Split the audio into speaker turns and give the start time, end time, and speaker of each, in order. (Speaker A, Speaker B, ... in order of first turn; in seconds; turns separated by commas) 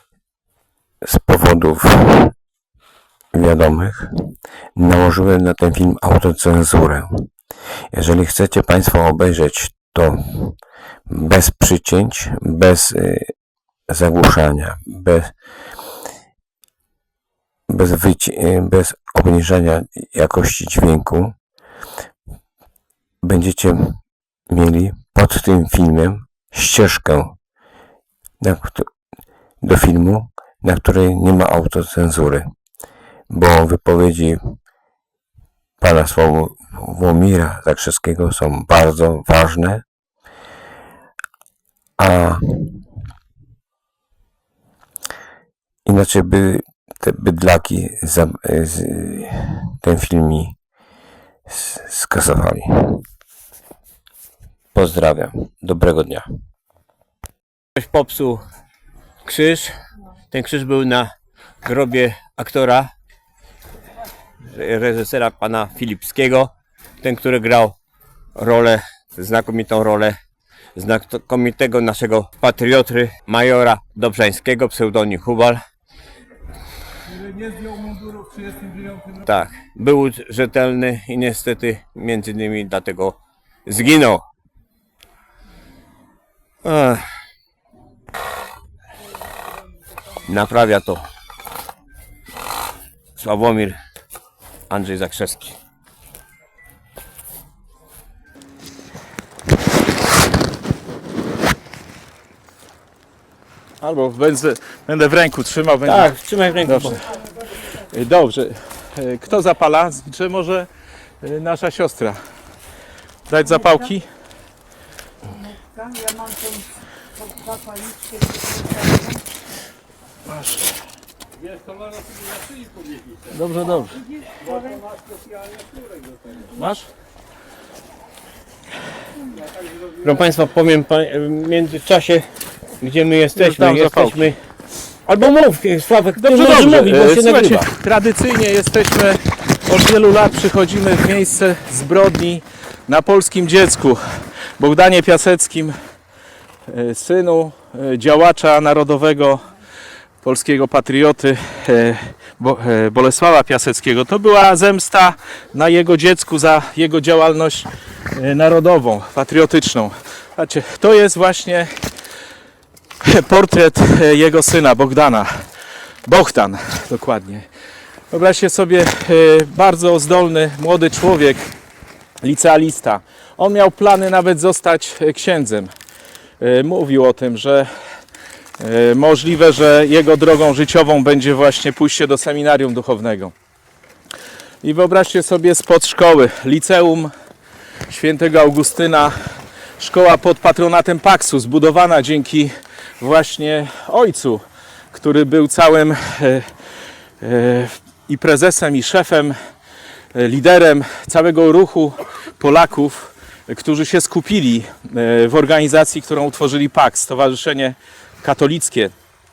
Speaker A: 1.0-2.3, Speaker A: 3.3-4.1, Speaker A: 4.7-7.3, Speaker A: 7.9-13.3, Speaker A: 13.9-15.3, Speaker A: 17.7-21.4, Speaker A: 23.2-27.4, Speaker A: 28.4-28.9, Speaker A: 29.6-32.5, Speaker A: 33.3-34.6, Speaker A: 35.8-39.8, Speaker A: 42.0-42.8, Speaker A: 45.9-50.5, Speaker A: 51.5-53.0, Speaker A: 54.7-56.3, Speaker B: 57.8-58.4, Speaker B: 59.2-59.7, Speaker B: 60.3-61.1, Speaker B: 61.6-62.9, Speaker B: 64.5-67.8, Speaker B: 68.3-70.2, Speaker B: 70.7-75.6, Speaker B: 77.9-84.2, Speaker B: 86.6-87.0, Speaker B: 90.3-91.0, Speaker B: 93.2-93.8, Speaker B: 94.7-95.5, Speaker C: 103.8-106.1, Speaker B: 105.8-107.0, Speaker C: 106.6-107.0, Speaker C: 107.8-110.7, Speaker C: 111.2-112.2, Speaker C: 113.3-114.0, Speaker C: 120.3-120.8, Speaker C: 123.3-124.0, Speaker C: 126.5-126.9, Speaker B: 130.0-132.3, Speaker B: 132.8-134.4, Speaker C: 133.3-134.3, Speaker B: 135.1-137.7, Speaker C: 136.1-144.0, Speaker C: 144.6-145.7, Speaker C: 146.7-149.4, Speaker C: 150.2-161.7, Speaker C: 163.0-165.3, Speaker C: 166.1-167.4, Speaker C: 168.1-171.5, Speaker C: 172.2-175.7, Speaker C: 176.4-177.7, Speaker C: 178.6-183.3, Speaker C: 184.6-187.1, Speaker C: 187.9-189.1, Speaker C: 189.8-196.4, Speaker C: 197.2-199.3, Speaker C: 200.1-208.9